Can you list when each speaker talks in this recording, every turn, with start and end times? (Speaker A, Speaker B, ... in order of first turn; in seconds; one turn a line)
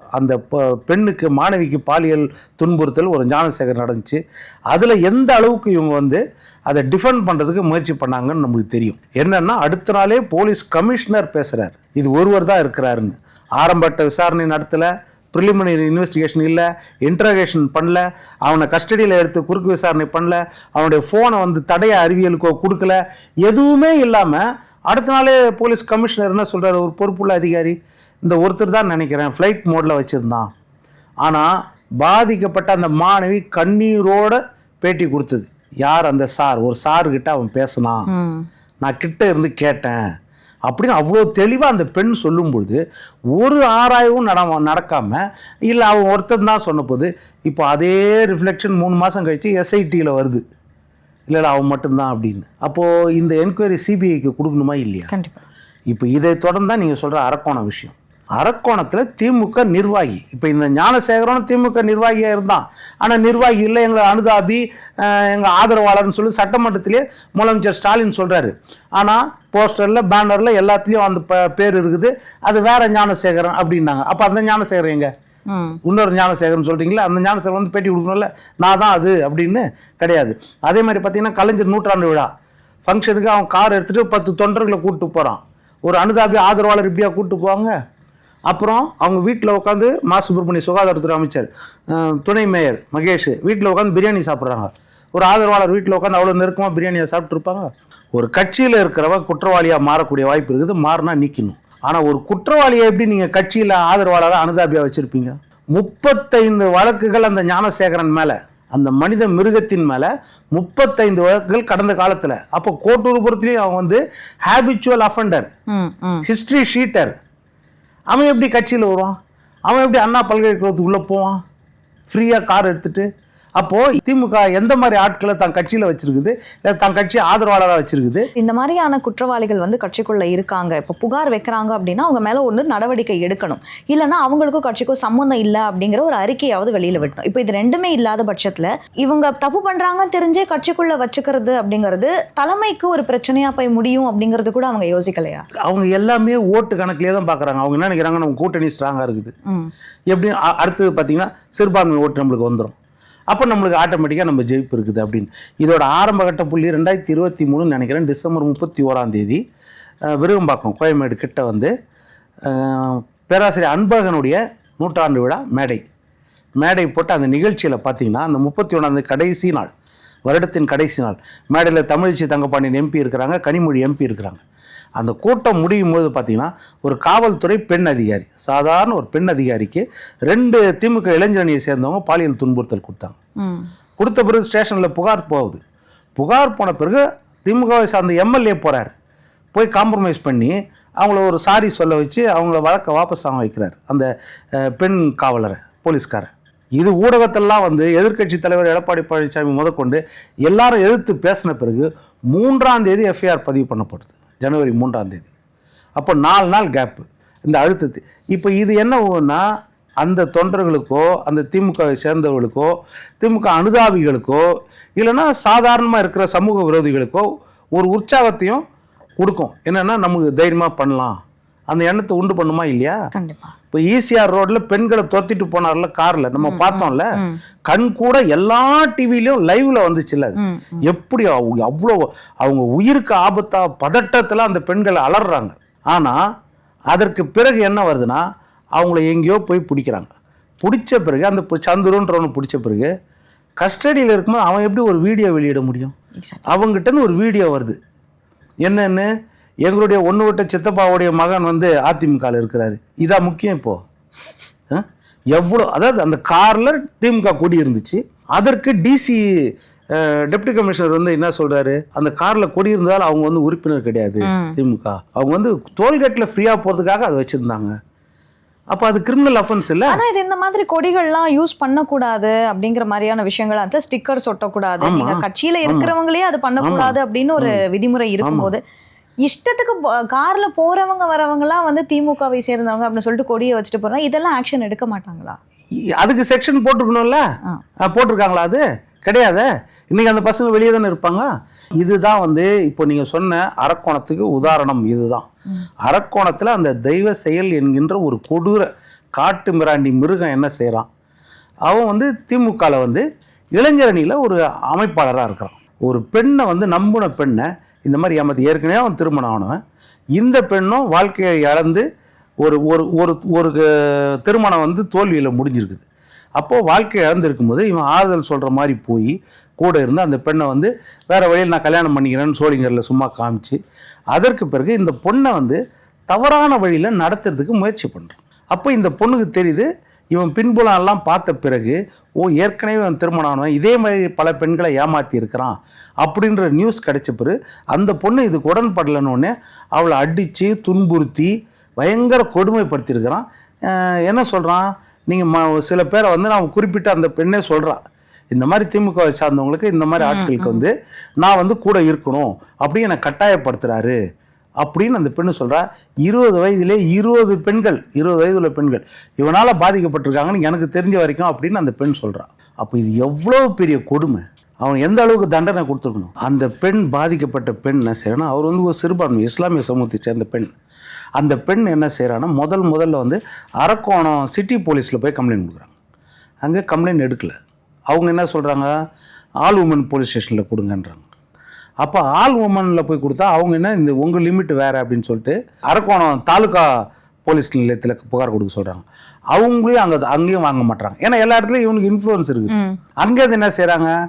Speaker A: 0.1-30.5
Speaker A: 31.2-38.1
Speaker B: 38.1-38.5
Speaker A: 38.8-40.0
Speaker A: 40.7-42.8
Speaker A: 43.4-50.4
Speaker A: 51.3-55.1
Speaker B: 55.1-55.4
Speaker A: 55.9-75.1
Speaker B: 75.5-75.8
Speaker A: 75.8-82.3
Speaker A: 82.9-87.7
Speaker A: 88.5-115.5
Speaker B: 115.7-116.3
Speaker A: 116.2-117.2
Speaker A: 118.1-119.2
Speaker A: 119.7-121.4
Speaker A: 122.1-123.1
Speaker A: 123.6-128.3
Speaker B: 128.4-145.5
Speaker A: 145.6-149.3
Speaker A: 150.1-152.7
Speaker A: 153.3-159.4
Speaker A: 160.1-161.7
Speaker A: 162.4-165.8
Speaker A: 166.6-169.7
Speaker A: 170.3-174.4
Speaker A: 175.0-183.2
Speaker B: 183.4-183.7
Speaker A: 184.0-185.6
Speaker A: 186.2-188.9
Speaker A: 189.5-194.1
Speaker A: 194.6-205.3
Speaker A: 206.0-209.4
Speaker A: 210.0-214.4
Speaker A: 215.0-218.6
Speaker A: 219.2-221.2
Speaker A: 221.7-223.0
Speaker B: 223.1-223.5
Speaker A: 223.7-227.1
Speaker B: 226.4-227.4
Speaker A: 227.7-236.2
Speaker B: 230.4-230.8
Speaker A: 236.9-238.2
Speaker A: 238.8-242.9
Speaker A: 243.6-245.9
Speaker B: 246.2-246.5
Speaker A: 246.5-247.8
Speaker A: 248.6-249.1
Speaker A: 249.6-253.8
Speaker A: 254.7-267.7
Speaker B: 264.2-264.6
Speaker A: 268.7-270.0
Speaker B: 269.9-278.6
Speaker A: 274.8-275.9
Speaker A: 276.6-277.6
Speaker A: 278.2-278.5
Speaker B: 279.2-285.4
Speaker A: 286.0-287.2
Speaker A: 287.8-295.3
Speaker A: 295.8-300.9
Speaker A: 301.7-309.6
Speaker A: 310.2-311.8
Speaker A: 312.4-315.9
Speaker A: 316.4-323.6
Speaker A: 324.1-347.8
Speaker A: 348.3-354.0
Speaker B: 350.0-350.6
Speaker A: 354.6-370.5
Speaker A: 371.2-375.7
Speaker A: 376.4-377.4
Speaker A: 377.9-378.7
Speaker A: 379.4-381.1
Speaker A: 381.8-386.7
Speaker A: 387.3-393.9
Speaker B: 392.5-392.8